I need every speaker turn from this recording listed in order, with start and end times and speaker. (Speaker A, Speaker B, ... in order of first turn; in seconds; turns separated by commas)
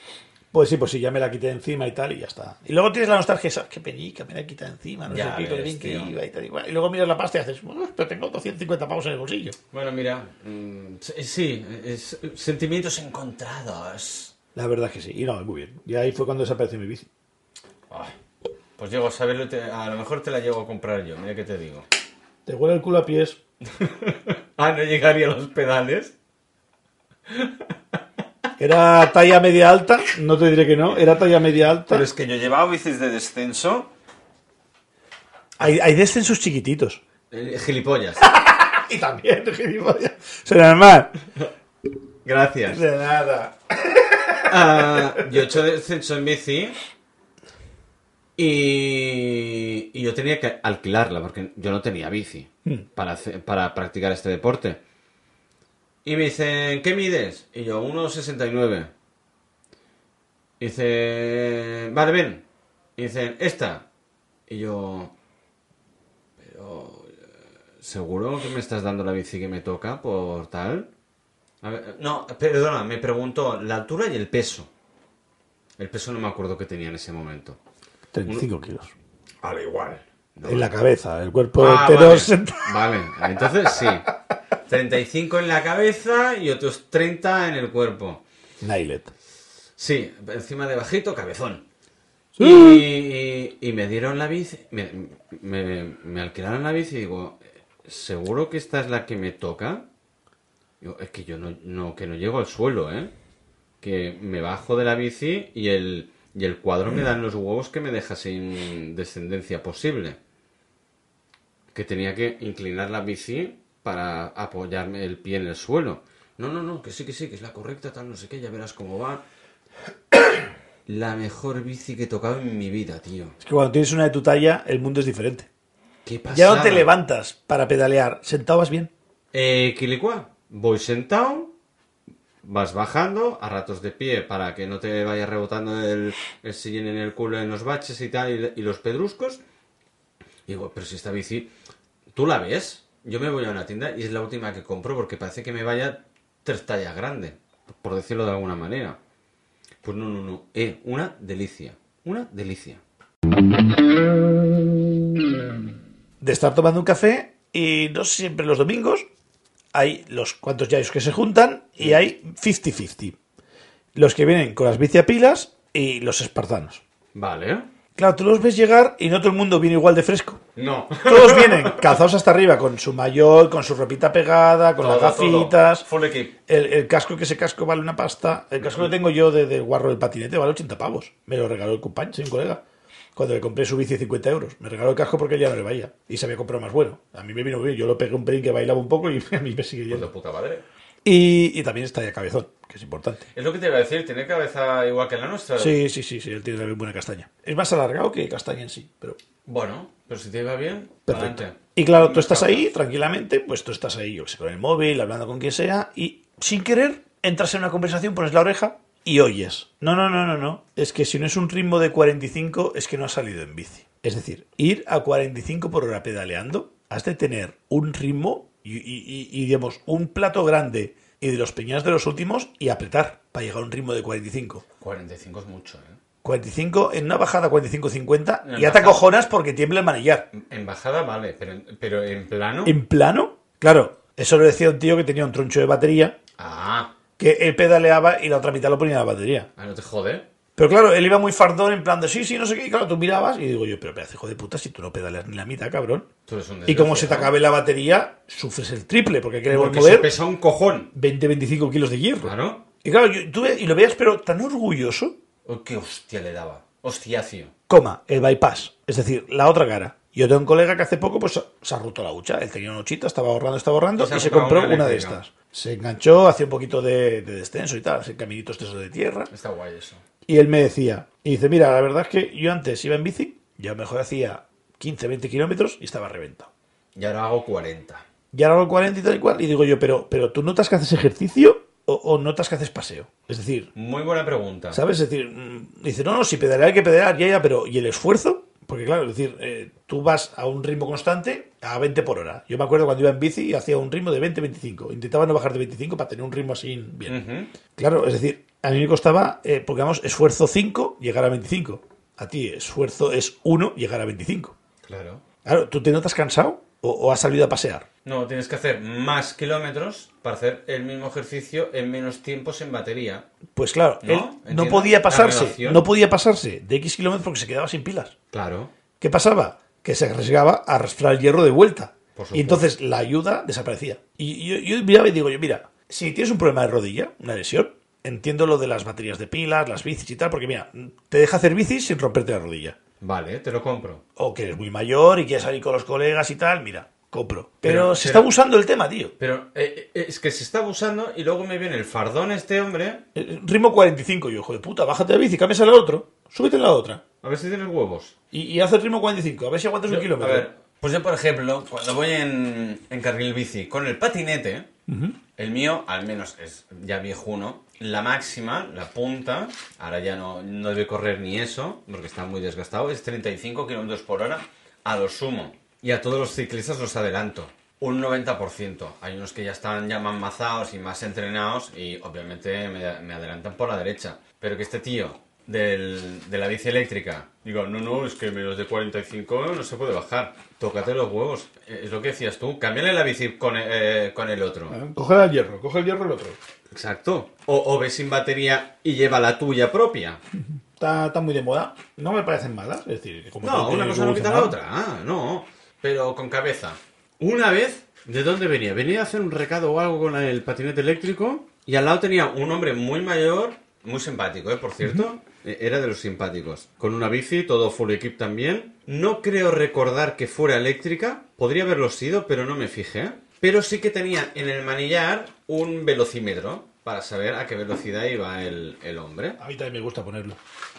Speaker A: 0.5-9.6, Speaker B: 5.1-6.1, Speaker B: 9.7-14.3, Speaker A: 14.5-17.1, Speaker B: 18.8-21.9, Speaker A: 22.4-23.4, Speaker B: 23.8-26.1, Speaker B: 27.3-27.6, Speaker A: 28.6-32.0, Speaker B: 31.9-33.9, Speaker A: 35.6-37.0, Speaker B: 37.3-38.2, Speaker A: 38.2-41.1, Speaker B: 42.2-42.8, Speaker A: 42.7-45.5, Speaker B: 44.4-46.8, Speaker B: 48.4-54.8, Speaker B: 56.0-58.9, Speaker B: 60.6-62.4, Speaker B: 63.0-63.9, Speaker B: 64.5-65.1, Speaker B: 66.4-70.9, Speaker B: 71.6-74.7, Speaker B: 75.8-77.6, Speaker A: 78.1-78.9, Speaker B: 79.4-80.7, Speaker A: 80.4-84.0, Speaker B: 81.6-84.1, Speaker B: 84.7-88.2, Speaker A: 88.6-89.1, Speaker B: 89.8-91.7, Speaker A: 92.3-92.8, Speaker B: 92.4-99.8, Speaker B: 100.8-103.1, Speaker B: 103.8-110.2, Speaker B: 111.7-119.2, Speaker B: 120.8-123.4, Speaker A: 123.4-125.5, Speaker B: 126.0-126.9, Speaker A: 126.3-128.9, Speaker B: 129.3-131.5, Speaker B: 132.4-139.4, Speaker B: 140.5-141.5, Speaker B: 142.1-149.0, Speaker B: 149.8-152.8, Speaker A: 156.2-159.1, Speaker A: 159.7-163.2, Speaker A: 163.9-166.8, Speaker B: 167.1-167.7, Speaker A: 167.9-170.4, Speaker B: 170.6-171.9, Speaker A: 171.0-175.8, Speaker B: 174.8-176.3, Speaker A: 176.5-182.6, Speaker B: 178.6-178.9, Speaker A: 183.2-190.1, Speaker B: 189.9-190.6, Speaker A: 191.0-193.2, Speaker B: 193.3-195.8, Speaker A: 195.6-199.2, Speaker B: 199.4-202.7, Speaker A: 201.1-224.6, Speaker B: 224.8-226.0, Speaker A: 226.2-230.3, Speaker B: 228.4-229.0, Speaker B: 230.3-232.8, Speaker A: 232.6-236.2, Speaker B: 236.4-236.9, Speaker A: 237.2-239.5, Speaker B: 239.6-240.2, Speaker A: 240.6-246.1, Speaker B: 246.3-247.3, Speaker A: 246.7-250.1, Speaker B: 249.5-250.9, Speaker A: 250.9-255.2, Speaker B: 252.2-252.6, Speaker B: 255.4-257.5, Speaker A: 257.7-269.3, Speaker B: 264.0-265.2, Speaker B: 269.3-270.0, Speaker A: 270.2-276.5, Speaker B: 276.9-278.0, Speaker A: 278.3-283.7, Speaker B: 283.7-284.8, Speaker A: 284.7-297.2, Speaker B: 297.1-297.5, Speaker A: 297.8-304.5, Speaker B: 304.8-305.2, Speaker A: 305.4-307.9, Speaker B: 308.0-313.2, Speaker A: 313.5-318.1, Speaker B: 314.0-315.8, Speaker B: 318.3-318.7, Speaker A: 319.0-332.8, Speaker B: 322.1-322.7, Speaker B: 333.0-334.0, Speaker A: 334.2-339.1, Speaker B: 337.6-338.3, Speaker B: 339.2-343.0, Speaker A: 343.1-347.0, Speaker B: 347.2-348.1, Speaker A: 348.3-350.5, Speaker B: 349.9-354.7, Speaker A: 354.9-355.2, Speaker B: 355.4-384.8, Speaker A: 384.7-386.4, Speaker B: 386.7-390.2, Speaker A: 390.8-394.6, Speaker B: 393.4-419.4, Speaker A: 419.4-420.4